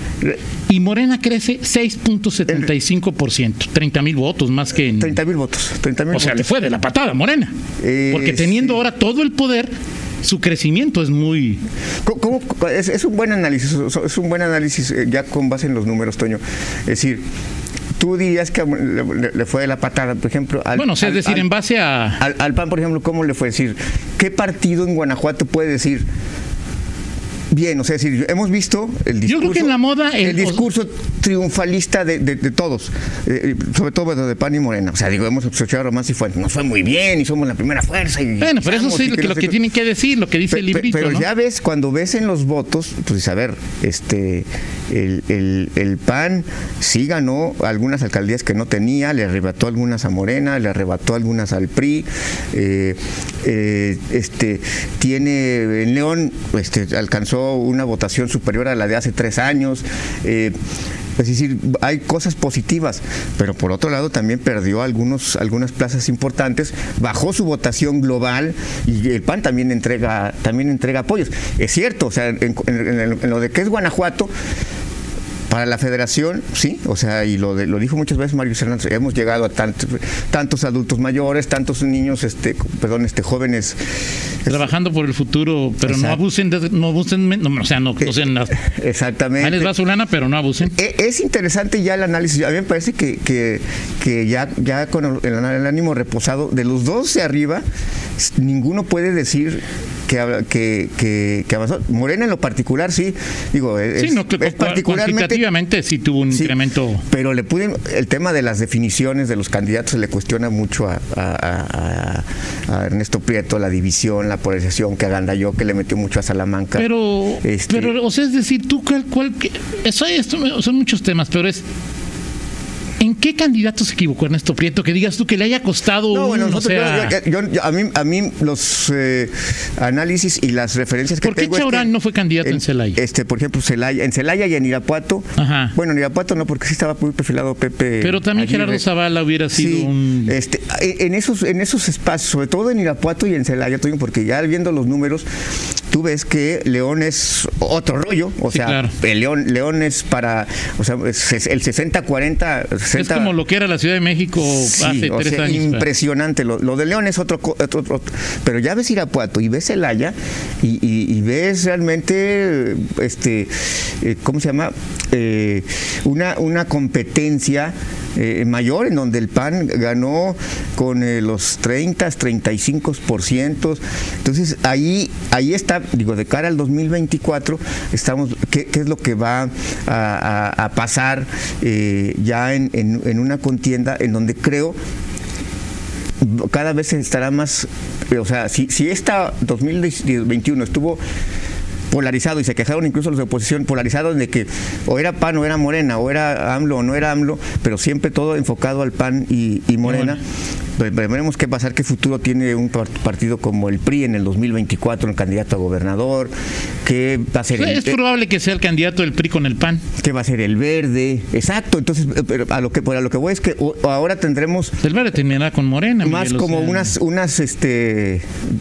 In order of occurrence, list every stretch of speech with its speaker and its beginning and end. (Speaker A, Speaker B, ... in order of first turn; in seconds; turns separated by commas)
Speaker A: 0.7-5.2, Speaker B: 5.0-6.5, Speaker A: 6.1-7.5, Speaker B: 7.8-8.8, Speaker A: 8.1-9.7, Speaker A: 10.2-11.6, Speaker B: 12.0-17.2, Speaker B: 18.0-21.5, Speaker A: 20.8-22.2, Speaker B: 22.2-26.0, Speaker B: 27.5-39.5, Speaker A: 29.2-30.6, Speaker A: 38.4-41.2, Speaker B: 40.5-60.5, Speaker B: 61.2-74.3, Speaker B: 75.5-83.8, Speaker B: 84.4-84.7, Speaker A: 84.5-88.5, Speaker B: 85.8-86.2, Speaker B: 88.0-89.7, Speaker A: 89.4-90.7, Speaker B: 90.7-97.6, Speaker B: 98.2-105.4, Speaker A: 104.0-107.0, Speaker B: 107.1-116.9, Speaker A: 116.8-121.6, Speaker B: 117.4-117.9, Speaker A: 123.0-127.2, Speaker B: 126.1-138.8, Speaker A: 131.2-133.0, Speaker A: 135.4-135.7, Speaker A: 138.0-140.3, Speaker B: 139.5-145.2, Speaker B: 145.9-153.3, Speaker A: 148.5-148.9, Speaker A: 152.9-155.8, Speaker B: 154.4-184.8, Speaker B: 186.2-191.0, Speaker B: 191.9-200.2, Speaker A: 199.8-200.2, Speaker B: 200.8-206.3, Speaker B: 206.8-208.0, Speaker A: 207.5-209.8, Speaker B: 210.0-214.8, Speaker A: 214.8-216.9, Speaker B: 216.0-218.3